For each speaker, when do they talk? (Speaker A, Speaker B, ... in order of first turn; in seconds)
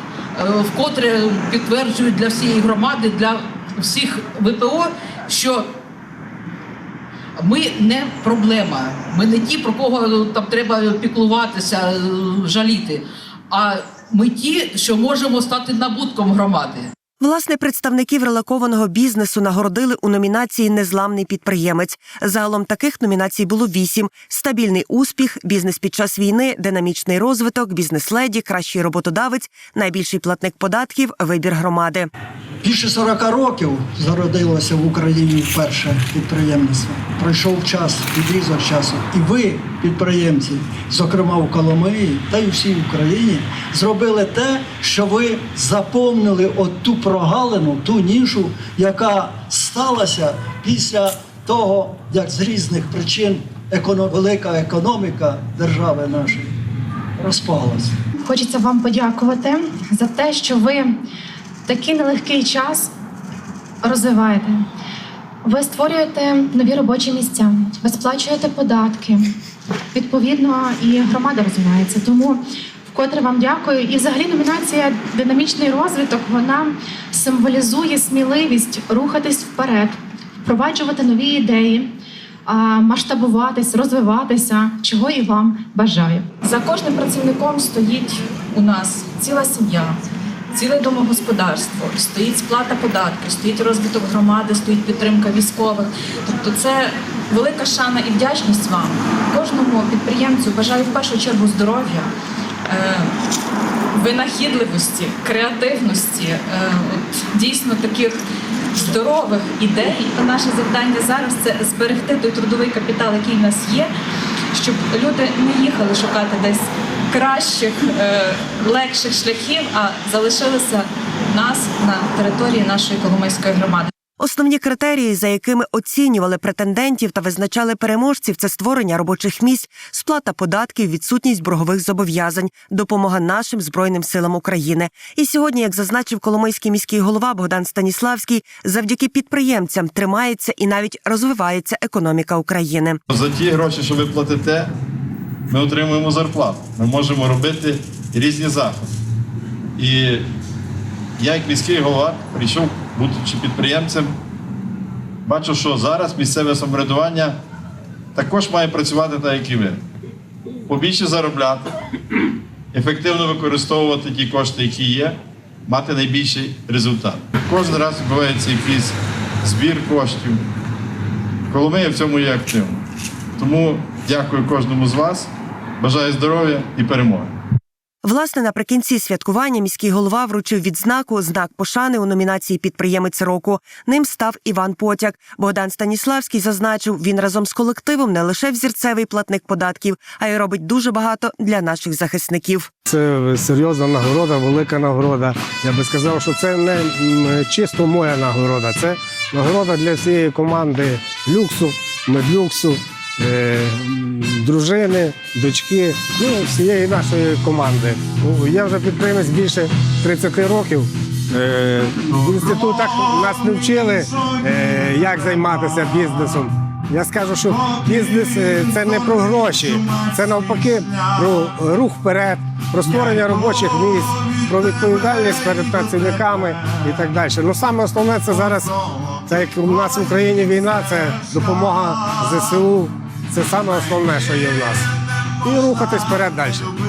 Speaker A: 0.4-5.7, 7.4-16.9
Speaker B: 17.2-32.1, 124.2-143.0, 178.0-192.7
Speaker C: 32.6-56.5, 57.2-58.0
Speaker D: 58.2-60.9, 61.7-62.9, 63.8-64.6, 65.4-69.3, 69.9-72.4, 72.9-81.9, 82.5-86.3
Speaker E: 86.5-89.9, 90.6-96.7, 97.3-102.0, 102.8-103.0, 104.0-106.7, 107.4-108.1, 108.8-113.8, 114.6-116.6, 117.1-120.7, 121.3-123.8
Speaker F: 143.1-144.7, 145.5-148.9, 149.8-150.3, 151.2-154.1, 155.2-157.4, 158.2-159.8, 160.7-161.8, 162.7-170.4, 171.5-172.8, 173.4-177.3
Speaker G: 192.9-228.8, 229.3-234.9, 235.4-236.7